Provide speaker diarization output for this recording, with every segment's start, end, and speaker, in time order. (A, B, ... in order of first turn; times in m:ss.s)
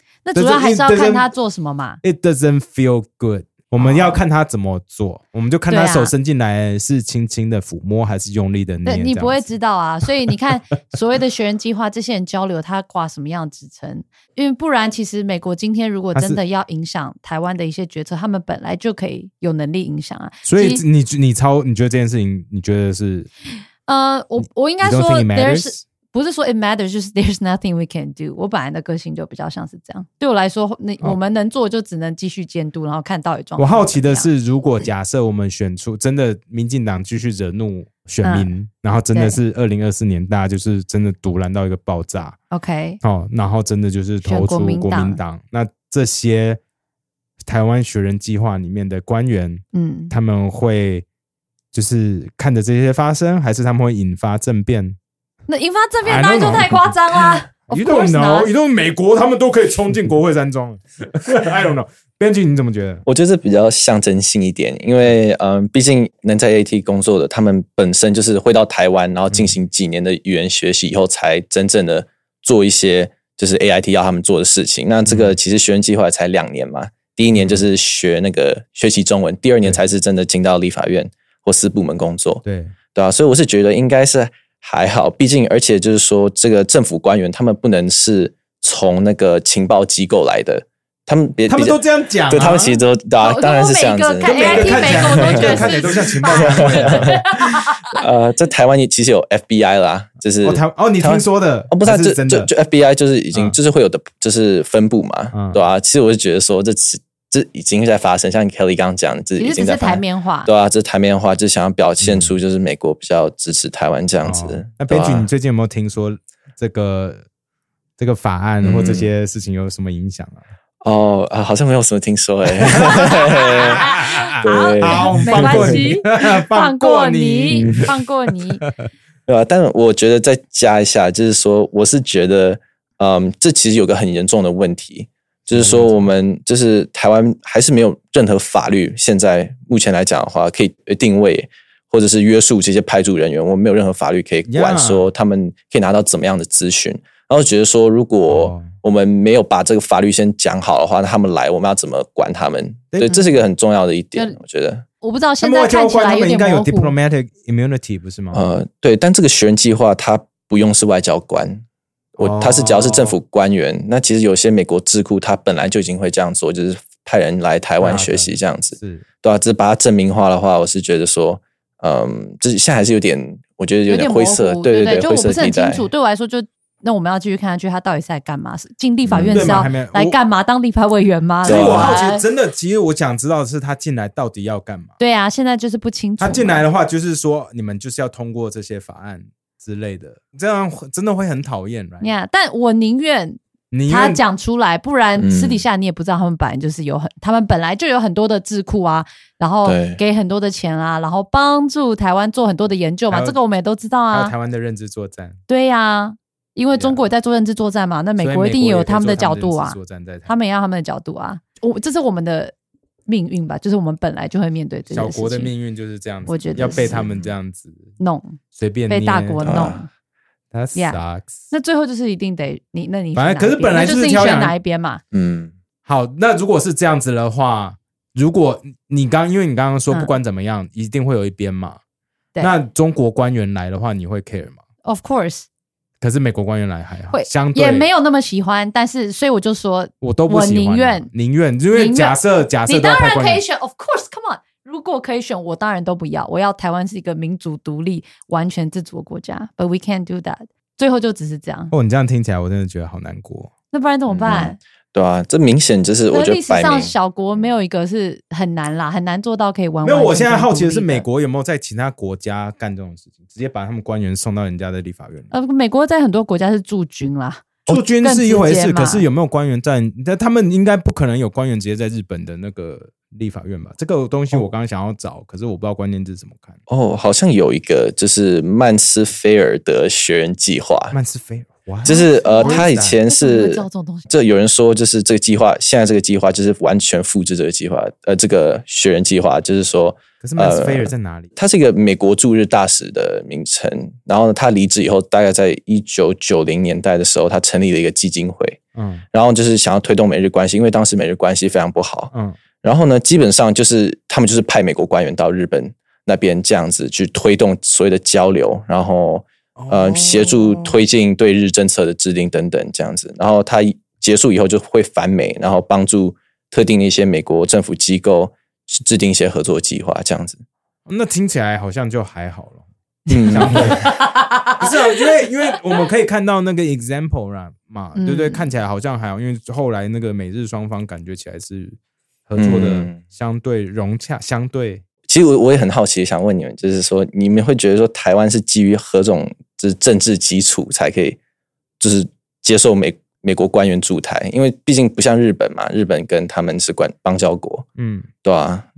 0:00.2-0:02.0 A
0:00.3-0:01.3 B
0:02.0-0:09.4 B
0:03.8-0:04.2 A
0:05.7-0:06.1 A
0:08.8-0:20.8 A
0:16.1-0:16.4 B
0:20.4-0:23.3 B
0:23.9-0:34.3 A
0:24.8-0:25.8 B
0:33.6-0:42.4 B
0:38.2-0:38.5 A
0:39.1-0:39.4 A
0:42.5-0:43.0 A
0:43.0-0:46.6 B
0:44.2-0:45.2 A
0:47.4-0:51.0 B
0:49.7-0:50.1 A
0:51.7-0:55.0 B
0:55.5-0:58.5 A
0:56.0-1:03.0 B
1:03.0-1:55.3 C
1:15.0-1:15.4 B
1:17.4-1:17.6 B
1:22.4-1:22.7 B
1:31.5-1:32.8 B
1:33.2-1:38.0 A
1:34.2-1:37.2 B
1:40.4-1:42.5 B
1:45.3-1:45.6 B
1:49.4-1:50.5 A
1:52.0-1:52.4 B
1:54.2-1:57.2 B
1:58.0-2:00.4 B
1:58.6-1:59.1 C
2:00.8-2:03.9 C
2:02.7-2:07.9 B
2:03.0-2:08.6 A
2:04.4-2:05.9 C
2:07.5-2:07.9 C
2:09.3-2:34.8 C
2:15.5-2:16.1 B
2:24.5-2:25.1 B
2:28.3-2:28.7 B
2:32.9-2:33.2 B
2:35.0-2:36.9 A
2:35.4-2:38.5 B
2:38.3-2:41.6 C
2:42.2-2:55.9 C
2:42.2-2:43.2 B
2:47.8-2:49.0 B
2:53.9-3:02.2 A
2:59.1-2:59.7 C
2:59.3-3:00.2 B
3:01.4-3:04.9 B
3:01.4-3:02.0 C
3:05.0-3:06.6 A
3:06.2-3:12.1 B
3:12.0-3:24.3 A
3:13.7-3:14.2 B
3:15.2-3:15.6 C
3:19.6-3:20.0 C
3:23.1-3:23.4 B
3:24.1-3:25.4 B
3:25.5-3:32.5 A
3:26.7-3:27.0 B
3:28.2-3:30.3 B
3:33.1-3:35.5 A
3:34.9-3:37.9 B
3:36.2-3:37.0 A
3:36.6-3:37.3 C
3:38.0-3:39.9 A
3:38.6-3:39.5 B
3:39.4-3:39.8 C
3:40.5-3:41.4 B
3:40.7-3:45.0 A
3:43.1-3:44.6 B
3:45.1-3:45.5 C
3:45.8-3:51.8 B
3:52.4-3:54.6 B
3:54.8-3:55.4 A
3:56.0-3:57.9 B
3:57.1-4:01.1 A
4:00.0-4:03.4 B
4:01.7-4:11.7 A
4:11.7-4:13.5 B
4:13.7-4:14.6 A
4:14.1-4:16.9 C
4:16.1-4:21.0 A
4:19.8-4:25.3 B
4:25.3-4:29.0 A
4:27.7-4:36.6 B
4:36.7-4:41.0 C
4:40.9-4:43.0 B
4:41.8-4:58.6 C
4:42.1-4:44.1 A
4:50.2-4:51.3 B
4:58.8-4:59.0 B
4:59.1-5:20.4 C
5:02.1-5:02.4 B
5:09.6-5:10.8 B
5:20.8-5:24.0 B
5:23.1-5:23.8 C
5:23.8-5:24.6 A
5:24.6-5:34.8 B
5:27.9-5:28.4 A
5:32.4-5:33.0 C
5:35.1-5:41.2 C
5:41.8-5:47.6 C
5:47.8-5:48.1 B
5:48.2-5:48.7 C